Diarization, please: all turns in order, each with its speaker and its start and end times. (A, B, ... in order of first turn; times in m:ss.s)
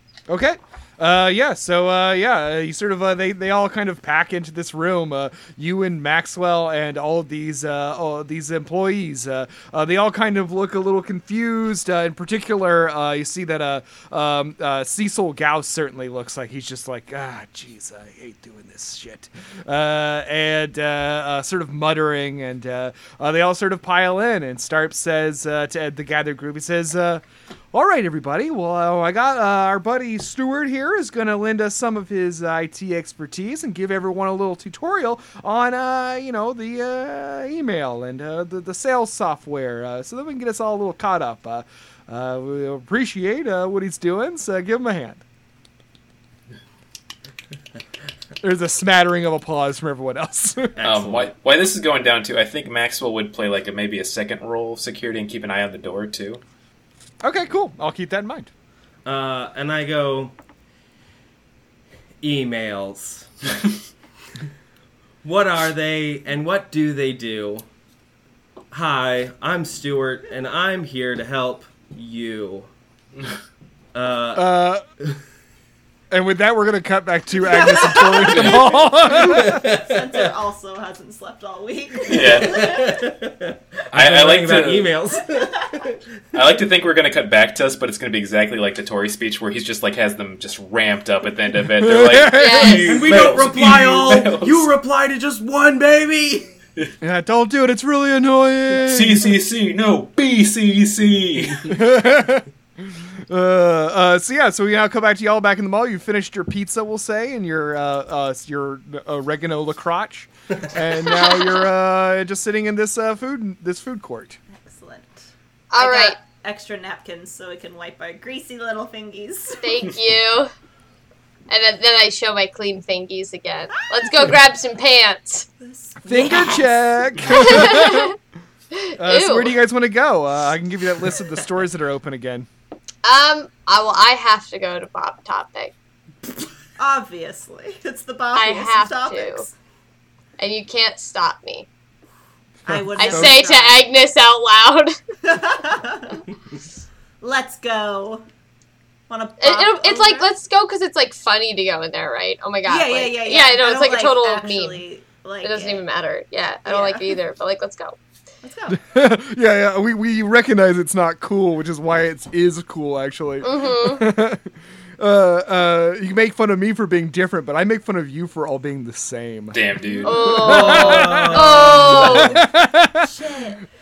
0:00.3-0:45.2 A
0:48.4-0:50.8 A
0:50.8-0:51.3 B
0:50.8-0:56.4 C
0:57.2-0:58.5 A
0:59.0-1:00.3 B
1:02.2-1:03.3 B
1:05.2-1:07.6 B
1:08.7-1:12.7 B
1:13.9-1:14.5 B
1:14.3-1:14.8 A
1:16.1-1:19.6 A
1:17.4-1:18.5 D
1:19.1-1:20.3 B
1:19.4-1:23.0 D
1:22.1-1:22.7 C
1:22.1-1:26.0 B
1:23.9-1:24.9 C
1:25.3-1:25.8 D
1:26.3-1:34.7 C
1:31.8-1:33.0 A
1:32.3-1:33.0 E
1:32.9-1:36.5 B
1:37.0-1:39.4 A
1:38.8-1:41.6 C
1:41.7-1:54.4 A
1:51.0-1:51.7 E
1:54.5-1:59.9 D
1:55.7-1:56.2 E
1:59.6-2:00.5 E
2:01.5-2:05.4 E
2:05.6-2:07.7 D
2:06.0-2:08.1 A
2:07.3-2:08.1 E
2:08.7-2:09.5 E
2:09.0-2:12.5 A
2:13.0-2:15.7 E
2:16.8-2:19.5 D
2:18.3-2:19.4 E
2:20.4-2:21.7 E
2:22.6-2:23.9 D
2:23.0-2:24.9 E
2:23.0-2:23.3 A
2:25.2-2:26.2 D
2:27.2-2:28.2 D
2:29.1-2:30.3 D
2:29.4-2:34.8 E
2:32.6-2:35.8 D
2:35.4-2:38.0 E
2:36.6-2:37.2 D
2:38.4-2:38.8 D
2:38.7-2:49.6 A
2:43.4-2:44.0 E
2:49.5-2:50.4 C
2:49.8-2:50.1 D
2:50.0-2:52.4 E
2:50.2-2:53.1 A
2:50.3-2:52.4 B
2:53.0-2:53.6 D